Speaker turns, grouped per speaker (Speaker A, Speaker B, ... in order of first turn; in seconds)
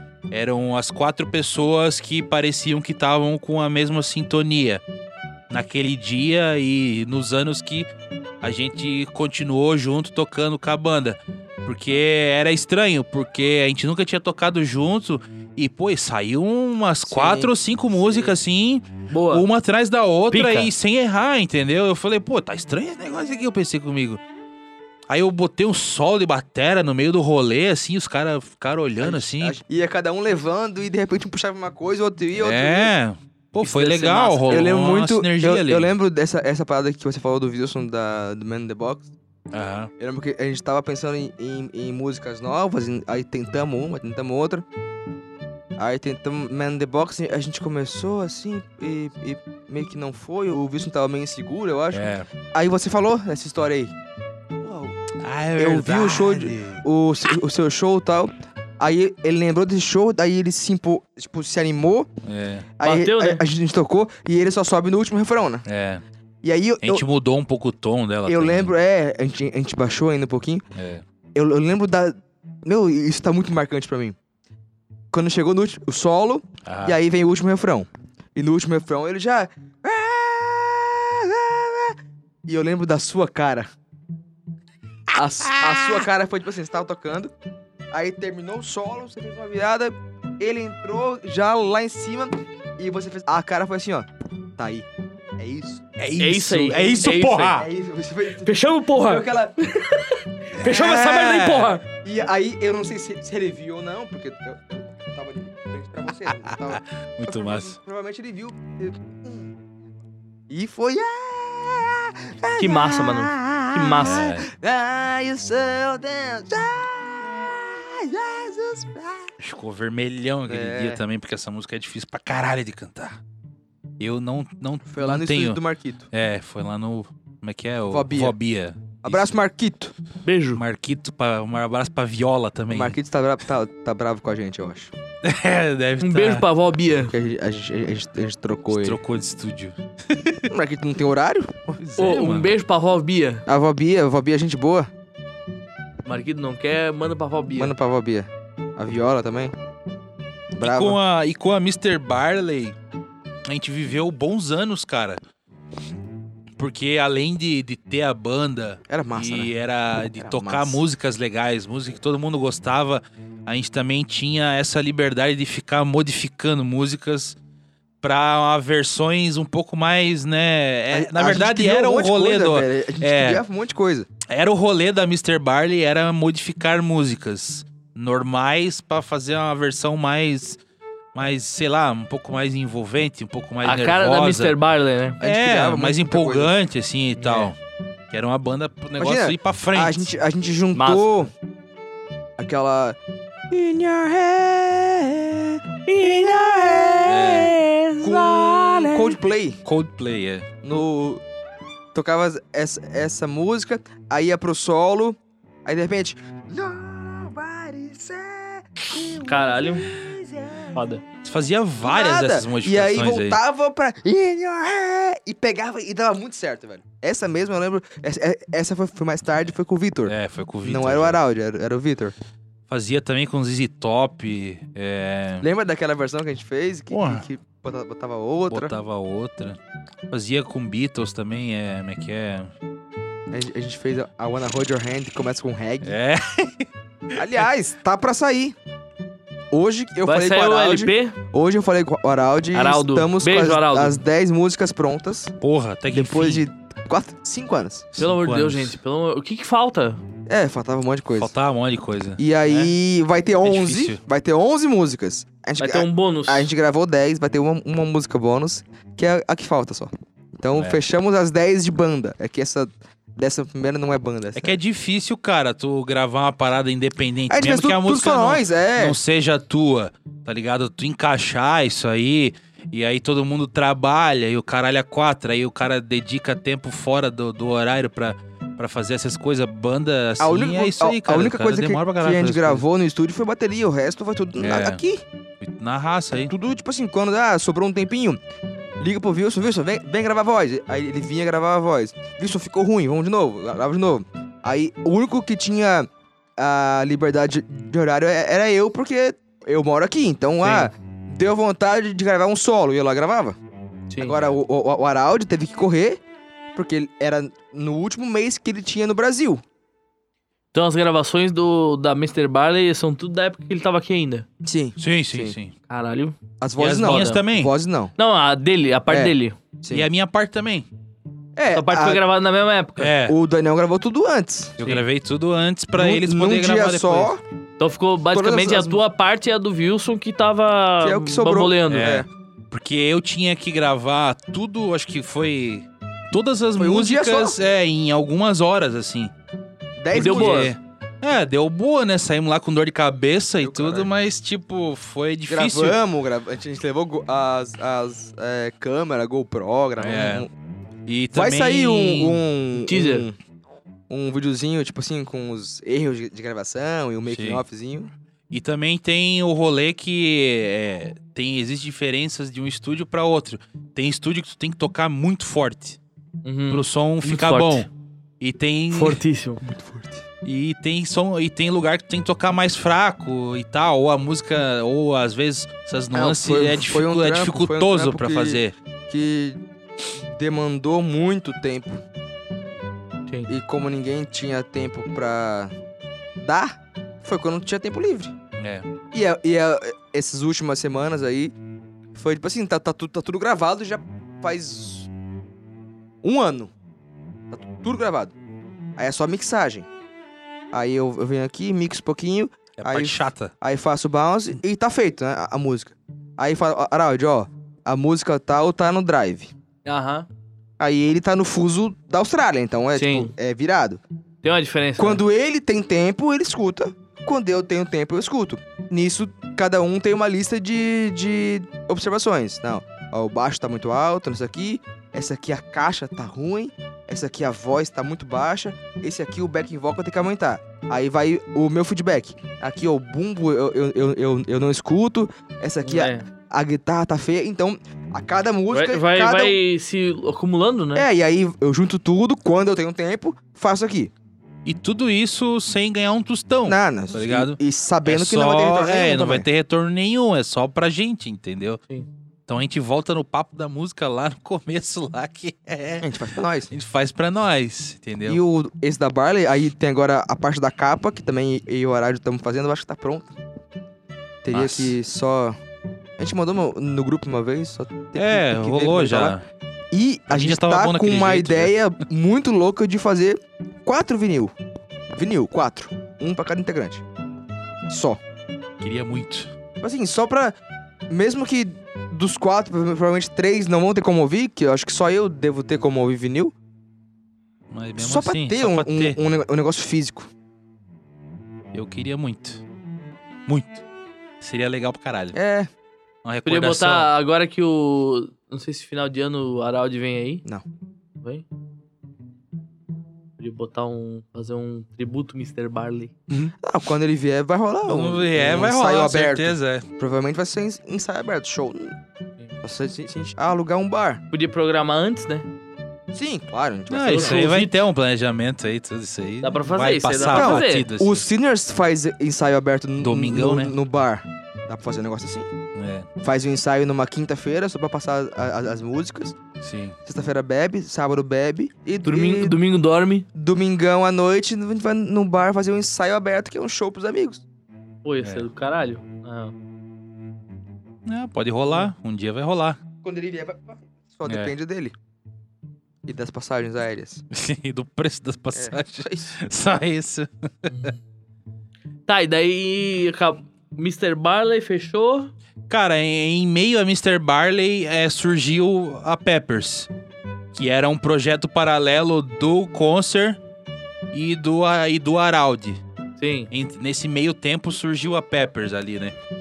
Speaker A: 0.3-4.8, 5.5-7.9, 8.4-24.2, 25.1-29.6, 32.4-35.9, 39.5-39.9, 51.9-52.3, 55.2-56.8, 62.2-62.7, 65.7-66.0, 66.8-68.7, 70.7-71.0, 76.6-77.0, 85.5-86.0, 96.0-97.7, 100.6-101.7, 106.4-107.8, 114.0-114.5, 119.4-123.2, 124.0-125.6, 126.1-129.3, 130.6-133.0, 135.2-136.4, 138.7-140.4, 141.8-142.5, 150.6-152.8, 153.4-155.2, 156.6-167.3, 168.0-173.4, 174.3-180.6, 181.1-184.6, 185.2-187.6, 188.1-190.1, 197.0-197.6, 198.5-198.9, 199.6-200.4, 211.2-213.4, 220.1-221.2, 222.7-225.5, 226.9-227.2, 228.5-229.6, 230.1-232.5, 235.8-237.2, 245.4-246.4, 247.9-248.8, 251.2-252.2, 253.4-254.0, 264.3-282.6, 284.4-284.8, 285.4-286.3, 314.8-315.5, 316.6-317.5, 319.7-320.7, 322.8-323.1, 324.6-327.1, 331.7-339.1, 339.9-345.8, 349.8-350.3, 350.9-352.2, 357.1-357.4, 358.3-365.8, 366.5-369.0, 370.2-378.5, 388.4-388.6, 402.6-403.3, 444.4-451.6, 452.3-455.9, 456.5-458.2, 464.3-464.7, 467.9-469.2, 470.1-471.5, 478.6-479.3, 487.5-489.0, 491.5-492.4, 493.3-493.6, 494.2-495.1, 496.0-496.9, 507.6-509.6, 516.7-521.0, 522.8-523.5, 525.5-525.9, 529.4-529.8, 540.9-542.6, 544.0-544.3, 547.1-550.5, 555.5-559.7, 560.3-563.2, 563.9-565.6, 566.3-568.9
Speaker B: 17.1-18.4, 29.0-32.9, 34.5-39.1, 40.0-44.6, 45.8-53.9, 54.6-55.0, 55.6-62.1, 62.8-65.6, 66.4-67.0, 68.2-70.6, 71.3-74.2, 75.1-83.7, 85.1-87.3, 87.9-94.9, 95.4-95.8, 97.5-99.6, 100.7-101.0, 101.8-109.5, 110.5-119.3, 120.5-121.0, 124.9-126.1, 127.9-128.3, 129.0-129.9, 132.7-134.9, 137.1-139.0, 140.5-141.8, 143.5-144.9, 147.5-149.5, 150.5-151.0, 158.9-159.5, 160.1-160.8, 170.9-174.1, 185.2-186.5, 189.0-191.3, 192.4-193.0, 193.5-199.6, 200.6-201.2, 201.9-210.9, 211.8-222.1, 225.4-228.7, 233.3-235.9, 237.1-238.6, 239.5-245.3, 245.9-247.9, 250.3-251.3, 252.2-264.5, 267.3-269.0, 280.2-285.0, 286.2-288.2, 288.8-303.4, 304.0-306.0, 306.5-309.4, 314.4-315.4, 316.4-317.9, 318.9-319.9, 321.4-322.0, 323.1-324.6, 325.8-327.2, 328.1-328.8, 330.8-332.1, 336.6-337.4, 339.8-340.5, 343.4-343.9, 345.3-350.3, 351.1-353.2, 353.9-357.9, 369.4-370.0, 375.9-381.8, 383.3-385.5, 386.2-388.1, 388.9-391.3, 391.9-394.9, 396.0-396.5, 397.3-398.1, 398.8-399.7, 400.5-409.3, 410.6-413.8, 414.8-439.4, 440.7-443.9, 446.4-449.3, 455.8-456.5, 458.0-463.1, 464.2-465.4, 466.0-469.2, 469.7-474.3, 474.9-476.8, 477.7-478.0, 479.6-480.3, 480.9-486.3, 487.8-490.1, 495.1-495.5, 506.1-511.8, 512.4-514.0, 515.9-517.3, 520.1-525.3, 526.0-529.2, 529.9-532.4, 533.1-537.2, 542.8-544.7, 545.8-547.0, 548.3-549.1
Speaker C: 19.1-19.4, 20.3-20.7, 33.6-34.6, 62.8-63.4, 96.2-97.6, 98.4-101.8, 112.6-114.2, 130.2-130.6, 136.0-137.1, 142.0-143.4, 146.1-147.7, 183.6-185.2, 187.2-187.5, 190.7-191.3, 197.6-198.6, 209.2-209.9, 210.7-211.0, 240.0-241.2, 242.5-244.0, 248.0-250.0, 252.4-252.7, 255.6-256.5, 300.4-300.7, 303.9-304.2, 310.5-314.2, 315.7-316.2, 316.8-317.2, 318.0-319.4, 321.5-322.9, 327.6-332.0, 339.9-340.5, 352.6-353.1, 366.2-367.7, 368.7-369.4, 409.6-410.1, 412.7-413.1, 414.2-415.0, 435.6-436.0, 438.5-440.9, 496.2-500.2, 501.0-501.2, 503.2-505.9, 514.1-515.2, 516.9-517.6, 519.2-520.7, 531.8-533.0, 537.8-539.3, 551.9-555.1, 566.0-566.3